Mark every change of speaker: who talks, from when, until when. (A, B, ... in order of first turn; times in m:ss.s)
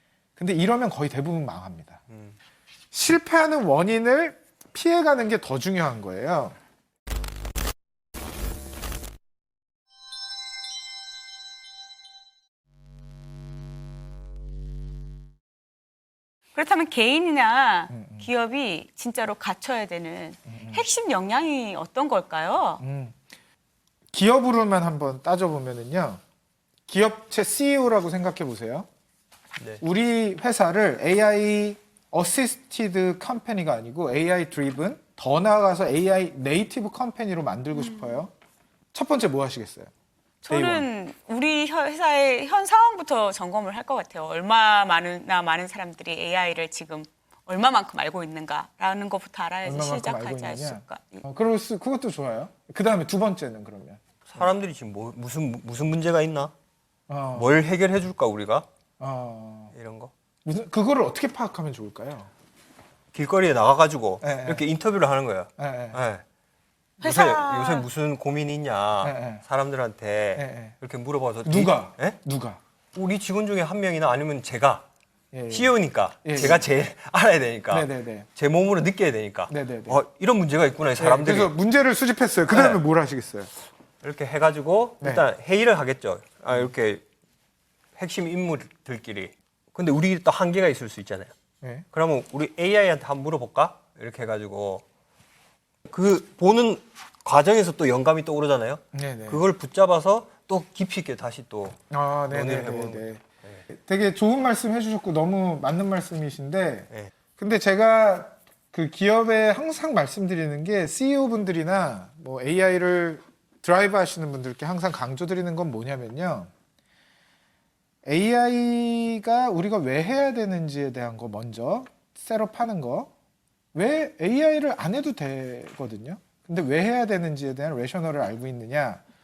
0:00.4-0:02.0 A
0:02.1-0:02.4 B
0:02.9-0:06.6 A
0:16.6-0:22.8 C
0:17.9-0:18.3 A
0:20.5-0:20.8 A
0:22.8-0:23.2 A
0:24.1-0:26.2 A
0:26.9-0:28.9 A
0:29.8-0:38.3 A
0:37.8-0:38.2 C
0:38.9-0:39.9 A
0:40.4-0:51.2 C
0:40.5-0:40.9 A
0:49.6-0:54.5 A
0:54.3-0:56.5 B
0:57.1-0:57.5 A
0:57.4-0:58.7 B
0:59.0-0:59.7 A
0:59.7-1:00.1 B
1:00.4-1:02.3 A
1:03.1-1:06.2 B
1:04.2-1:04.6 A
1:05.6-1:06.0 A
1:07.0-1:07.9 C
1:07.0-1:12.2 B
1:09.0-1:09.4 A
1:10.4-1:10.8 A
1:11.4-1:12.6 A
1:12.9-1:14.8 B
1:15.3-1:16.7 A
1:15.5-1:21.6 B
1:17.7-1:18.3 A
1:19.5-1:20.0 A
1:21.0-1:23.5 A
1:22.5-1:22.8 B
1:24.0-1:27.0 B
1:25.0-1:25.3 A
1:28.0-1:31.3 B
1:31.9-1:34.8 B
1:35.9-1:41.8 B
1:38.9-1:39.4 A
1:41.9-1:56.5 A
1:42.3-1:43.6 B
1:58.0-2:03.1 A
2:03.7-2:09.0 A